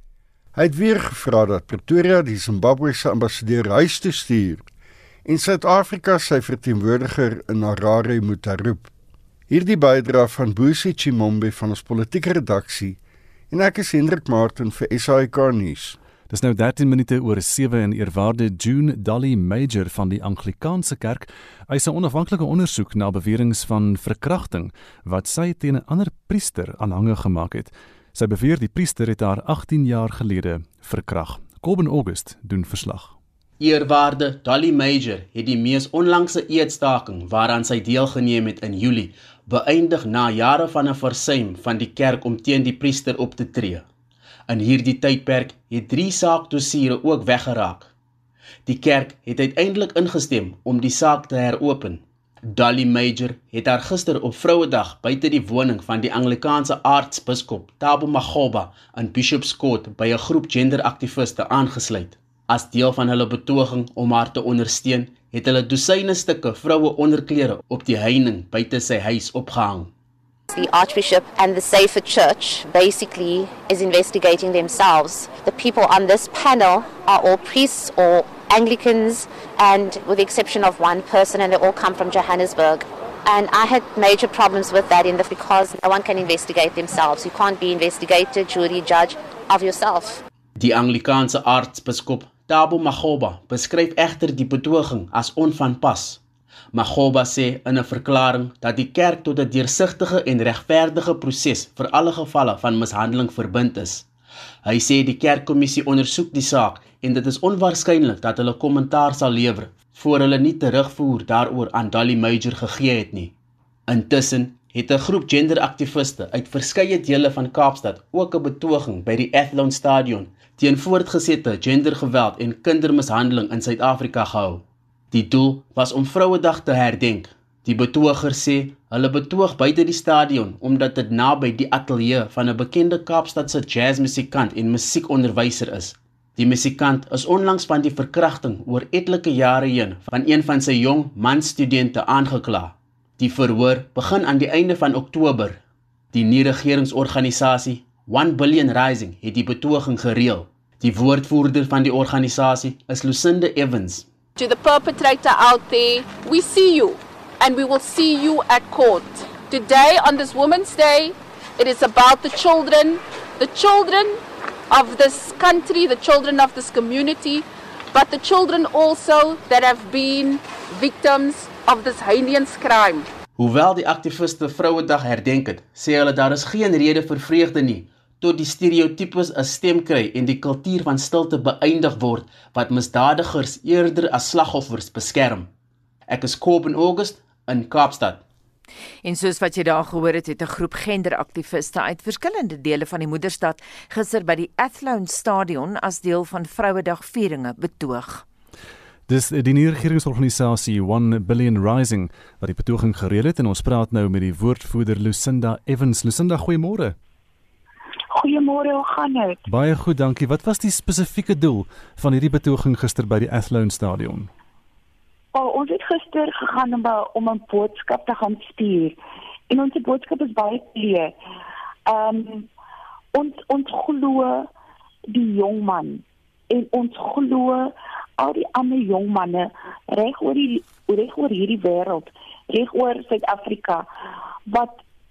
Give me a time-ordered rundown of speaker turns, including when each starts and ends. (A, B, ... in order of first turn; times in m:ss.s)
0:00.5-0:04.7 A
0:05.2-0:08.9 A
0:09.5-0:13.0 A
0:13.5-0:16.0 A
0:16.3-0:33.1 B
0:33.6-0:43.8 C
0:44.5-0:47.9 C
0:48.6-1:09.9 C
1:10.5-1:30.2 D
1:30.6-1:36.2 C
1:36.7-1:44.0 C
1:44.6-1:53.3 C
1:53.9-2:25.6 C
2:26.1-2:34.0 C
2:34.4-2:53.1 E
2:53.4-3:05.5 C
3:06.1-3:08.2 C
3:09.0-3:18.2 F
3:19.1-3:26.9 B
3:28.1-3:29.4 G
3:29.5-3:34.3 B
3:35.3-3:39.0 G
3:39.5-3:41.1 G
3:41.8-3:42.5 G
3:43.1-3:44.5 G
3:45.1-3:53.8 G
3:54.5-3:54.8 G